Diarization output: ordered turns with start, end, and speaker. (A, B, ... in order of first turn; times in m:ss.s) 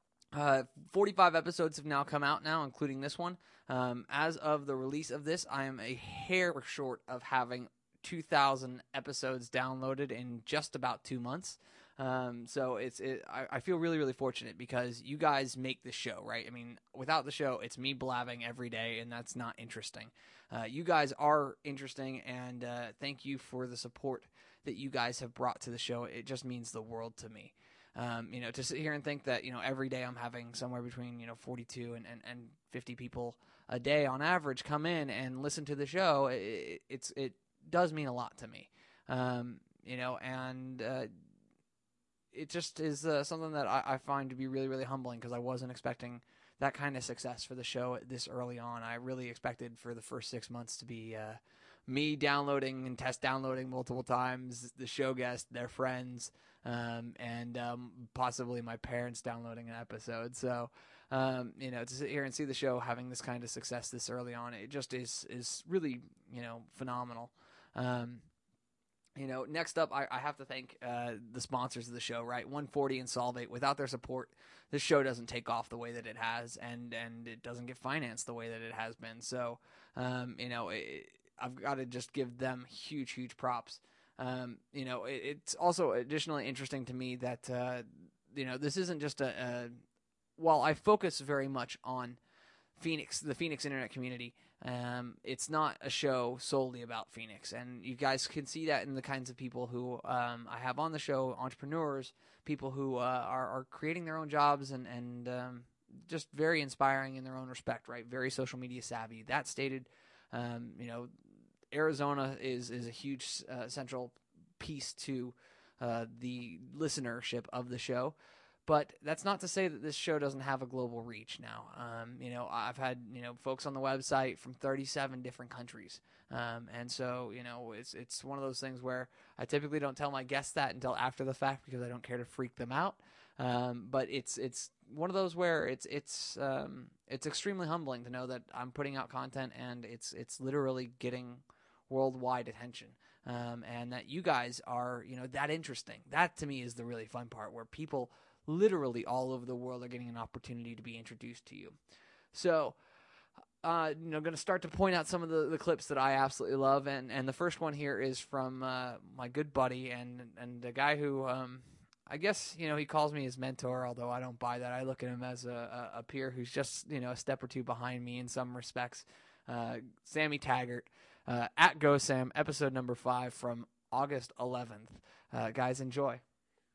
0:00.3-0:41.1 A
0:42.3-1:08.2 A
1:09.2-1:29.8 A
1:30.4-1:32.2 A
1:32.8-1:51.1 A
1:51.7-1:58.2 A
1:58.7-2:31.8 A
2:32.3-2:32.8 A
2:33.6-2:56.2 A